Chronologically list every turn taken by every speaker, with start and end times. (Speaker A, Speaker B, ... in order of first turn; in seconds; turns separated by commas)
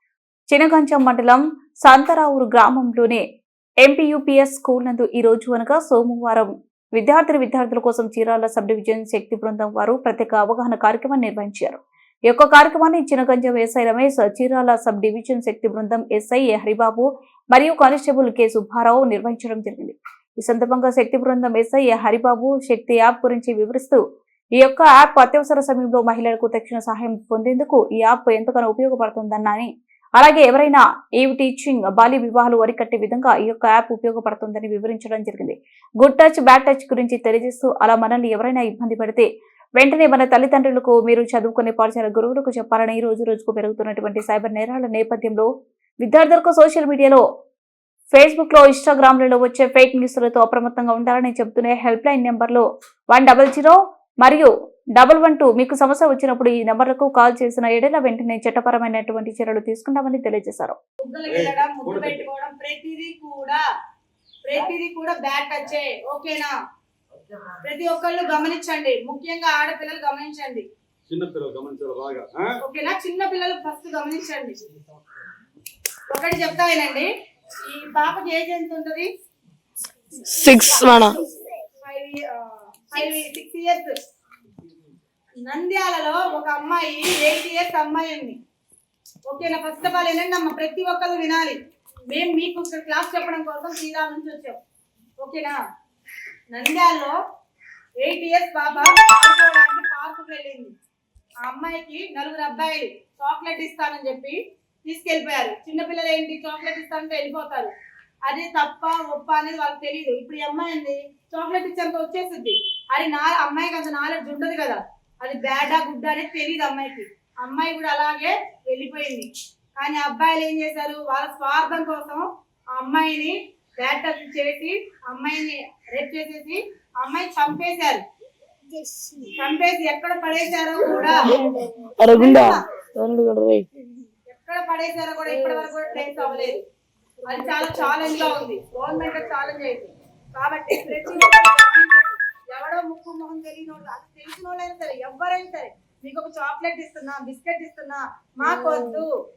Speaker A: 0.5-3.2, Speaker A: 3.8-24.0, Speaker A: 24.6-45.5, Speaker A: 46.0-47.2, Speaker A: 48.1-60.8, Speaker B: 61.0-63.6, Speaker C: 61.3-62.2, Speaker B: 64.5-66.5, Speaker B: 67.6-70.7, Speaker C: 71.1-72.5, Speaker B: 72.6-74.6, Speaker B: 76.1-79.1, Speaker D: 80.2-81.2, Speaker B: 81.8-83.9, Speaker B: 85.5-88.4, Speaker B: 89.3-91.6, Speaker B: 92.1-94.6, Speaker B: 95.2-95.6, Speaker B: 96.5-97.2, Speaker B: 98.0-100.7, Speaker B: 101.4-107.7, Speaker B: 108.3-122.2, Speaker B: 122.8-128.0, Speaker B: 129.3-131.4, Speaker D: 131.3-133.7, Speaker B: 132.1-132.6, Speaker B: 134.3-136.6, Speaker B: 137.3-149.1